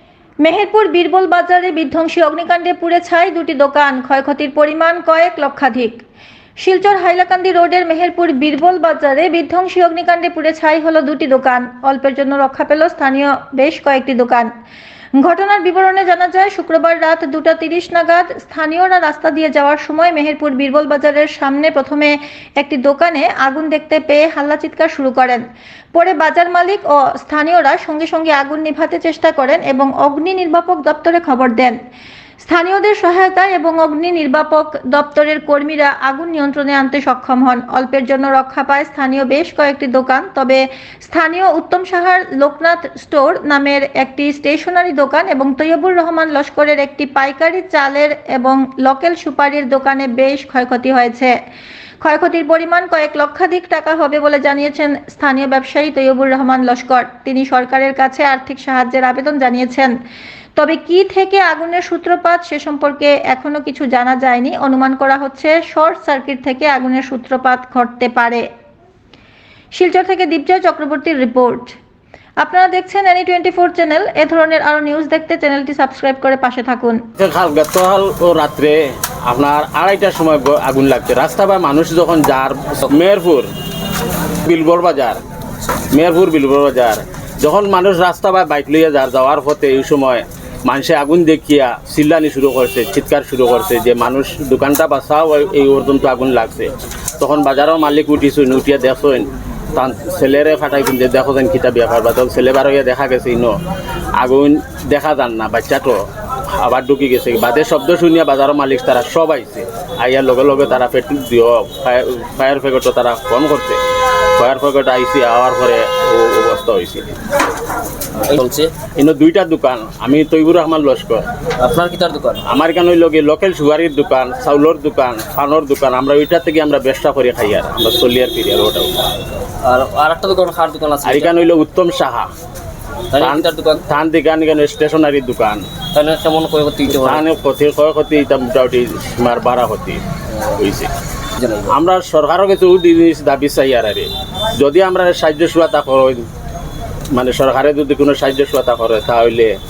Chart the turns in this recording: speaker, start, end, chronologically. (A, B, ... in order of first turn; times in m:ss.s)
0:00.4-0:06.0 A
0:06.6-0:14.5 A
0:15.2-0:25.4 A
0:25.9-0:31.7 A
0:32.4-0:51.3 A
0:52.0-0:59.9 A
1:00.6-1:08.4 A
1:09.7-1:11.8 A
1:12.4-1:17.0 A
1:17.2-1:23.5 B
1:24.4-1:25.2 B
1:25.9-1:43.5 B
1:44.2-1:46.0 B
1:46.6-1:53.8 B
1:54.4-1:57.2 B
1:58.2-1:58.7 C
1:59.0-2:01.2 B
2:01.6-2:02.4 C
2:02.4-2:08.9 B
2:09.6-2:11.3 C
2:11.0-2:12.3 B
2:13.1-2:13.8 C
2:13.2-2:15.6 B
2:15.9-2:17.2 C
2:16.9-2:20.0 B
2:20.6-2:20.9 B
2:21.4-2:21.7 C
2:21.7-2:26.2 B
2:27.1-2:29.5 B